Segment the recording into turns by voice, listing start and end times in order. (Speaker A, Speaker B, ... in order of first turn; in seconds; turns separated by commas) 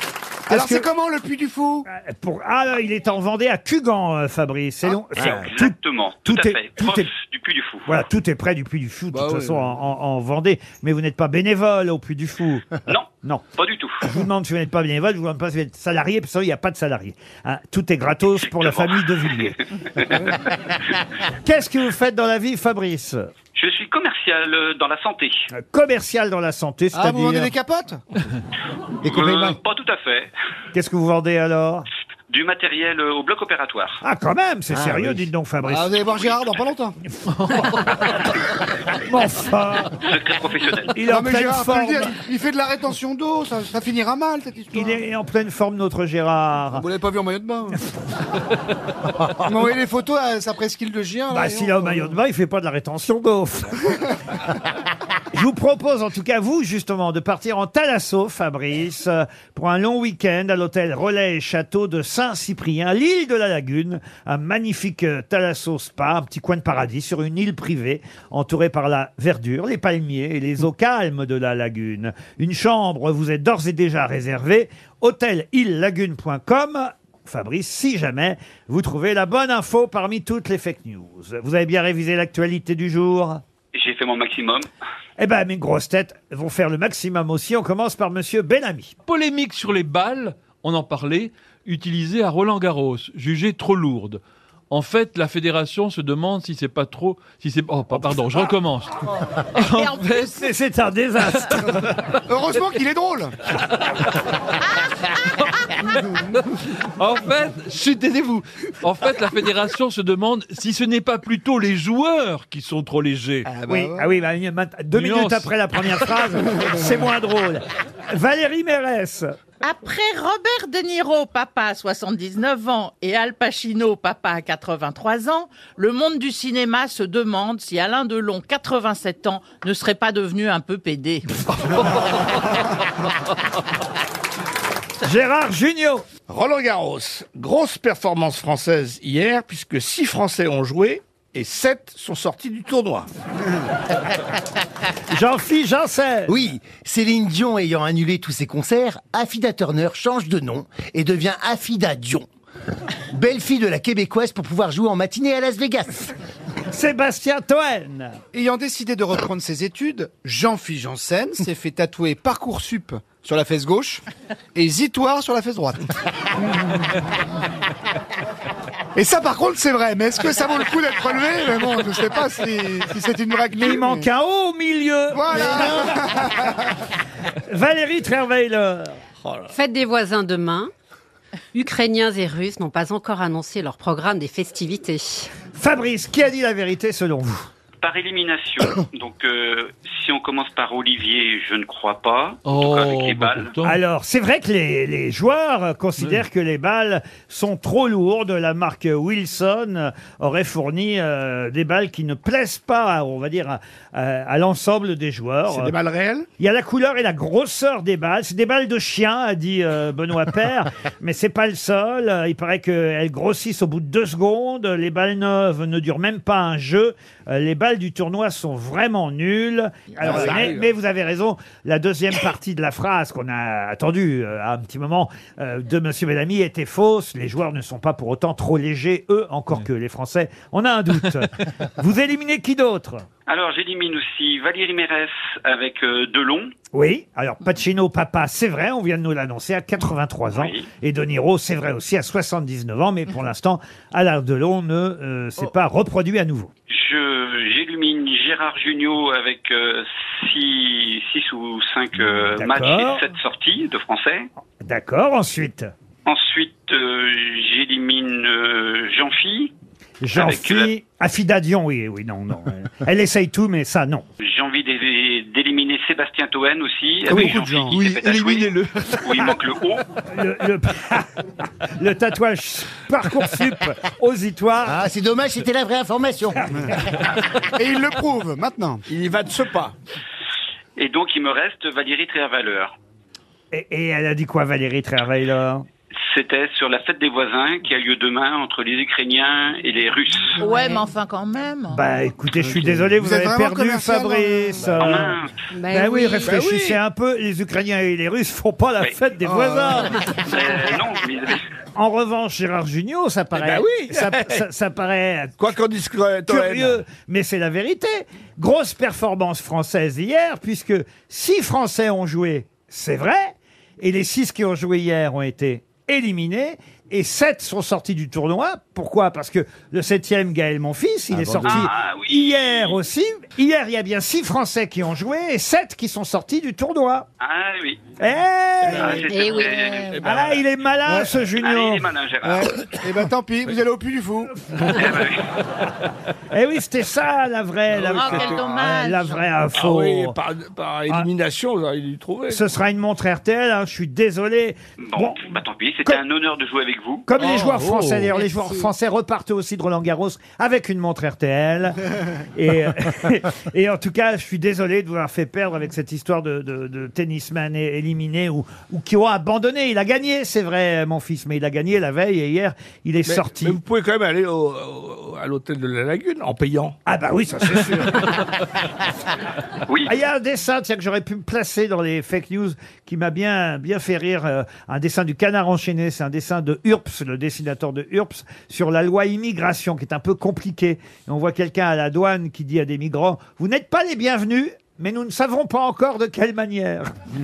Speaker A: 0.5-0.9, Speaker B: 0.5-1.9, Speaker A: 1.9-7.1, Speaker C: 5.2-7.9, Speaker A: 7.8-13.5, Speaker B: 9.1-9.6, Speaker C: 12.9-14.1, Speaker A: 14.1-20.2, Speaker C: 18.4-20.4, Speaker A: 21.3-23.3, Speaker C: 23.6-25.3, Speaker A: 25.5-27.5, Speaker B: 26.9-28.0, Speaker C: 29.0-30.3, Speaker D: 29.0-29.6, Speaker A: 30.7-31.9, Speaker C: 32.3-34.0, Speaker A: 34.0-36.0, Speaker D: 34.7-35.2, Speaker B: 35.7-37.0, Speaker A: 37.5-37.8, Speaker A: 38.9-40.0, Speaker C: 40.0-40.9, Speaker A: 40.9-42.1, Speaker B: 41.0-45.0, Speaker A: 44.7-46.9, Speaker B: 46.7-47.8, Speaker B: 49.4-52.1, Speaker A: 51.3-54.0, Speaker A: 55.3-83.4, Speaker C: 83.7-84.7, Speaker A: 85.2-89.0, Speaker E: 89.0-100.4, Speaker A: 100.2-102.0, Speaker B: 102.2-103.3, Speaker E: 105.4-113.5, Speaker B: 113.5-114.1, Speaker A: 113.7-119.3, Speaker E: 114.9-115.6, Speaker F: 119.6-131.3, Speaker E: 131.6-132.5, Speaker A: 135.0-136.1, Speaker G: 136.3-143.1, Speaker A: 145.1-146.3, Speaker D: 146.3-152.3, Speaker D: 153.1-156.1, Speaker A: 156.7-158.2, Speaker B: 158.3-165.9, Speaker B: 168.9-174.1, Speaker A: 173.5-176.1, Speaker B: 175.1-176.5, Speaker A: 177.3-179.0, Speaker H: 179.5-180.7, Speaker H: 181.5-185.3, Speaker A: 185.5-187.5, Speaker C: 187.8-193.5, Speaker E: 192.4-193.8, Speaker A: 193.6-205.7, Speaker G: 205.5-206.3, Speaker A: 206.4-233.1, Speaker G: 220.0-220.7, Speaker C: 233.3-236.5, Speaker A: 236.7-246.5, Speaker C: 240.3-240.6, Speaker C: 246.7-254.2, Speaker A: 252.3-253.0, Speaker A: 254.6-255.7, Speaker C: 256.1-259.5, Speaker A: 260.0-264.0, Speaker C: 260.1-260.7, Speaker C: 264.2-269.8, Speaker E: 267.1-269.3, Speaker A: 267.1-267.4, Speaker B: 267.2-267.8, Speaker A: 270.1-274.8, Speaker D: 274.6-276.8, Speaker B: 277.5-278.8, Speaker G: 278.9-279.7, Speaker C: 280.8-282.7, Speaker A: 283.5-285.6, Speaker C: 286.0-290.4, Speaker F: 290.4-291.8, Speaker A: 291.7-300.0, Speaker B: 292.3-294.7, Speaker C: 294.8-295.3, Speaker H: 295.5-296.3, Speaker G: 296.2-296.8, Speaker B: 299.2-299.9, Speaker C: 300.1-301.4, Speaker A: 301.7-305.5, Speaker G: 303.3-304.4, Speaker G: 305.4-306.8, Speaker A: 306.2-327.1, Speaker C: 321.4-322.8, Speaker C: 327.2-327.8, Speaker A: 328.0-329.2, Speaker C: 328.7-330.4, Speaker B: 328.8-329.1, Speaker H: 329.1-330.0, Speaker A: 330.0-331.9, Speaker B: 330.9-331.1, Speaker C: 331.3-332.5, Speaker B: 332.2-334.8, Speaker C: 334.6-335.3, Speaker A: 336.3-340.2, Speaker F: 337.8-339.4, Speaker G: 339.5-342.4, Speaker A: 342.3-345.3, Speaker C: 344.8-347.1, Speaker A: 347.1-363.6, Speaker E: 347.2-348.1, Speaker H: 348.1-348.6, Speaker G: 363.0-366.8, Speaker A: 366.8-368.2, Speaker A: 369.9-386.9